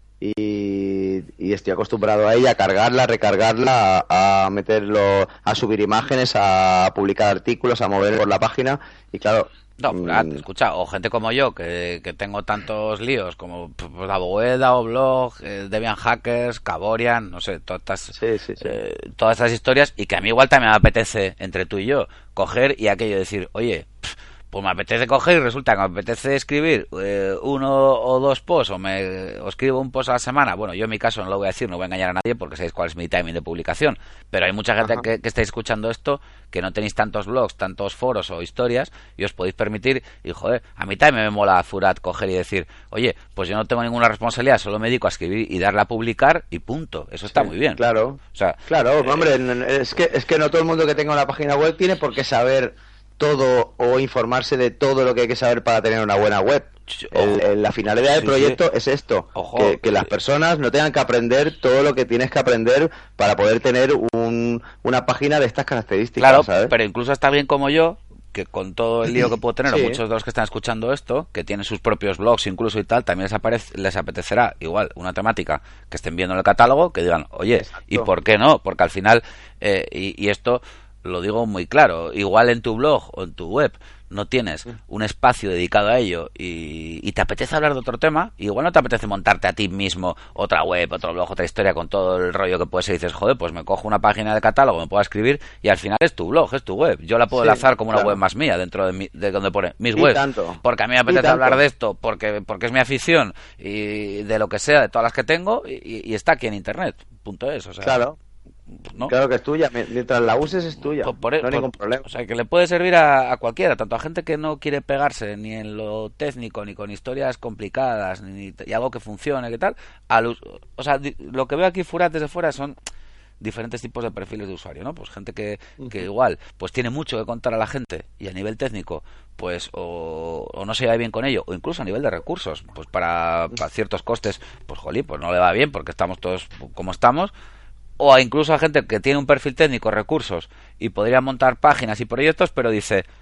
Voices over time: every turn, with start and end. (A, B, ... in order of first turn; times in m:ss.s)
0:00.2-0:10.4 A
0:09.8-0:47.8 B
0:18.2-0:18.7 A
0:47.3-1:06.7 A
0:48.3-0:49.3 B
0:56.9-0:57.4 B
0:58.1-0:58.6 B
0:59.3-1:00.1 B
1:06.2-1:48.0 B
1:09.7-1:10.0 A
1:17.6-1:18.1 A
1:37.3-1:38.2 A
1:40.0-1:41.6 A
1:47.8-1:48.2 A
1:48.8-1:49.1 B
1:49.0-1:52.0 A
1:51.0-2:02.8 B
2:03.4-2:17.3 B
2:18.0-2:23.0 B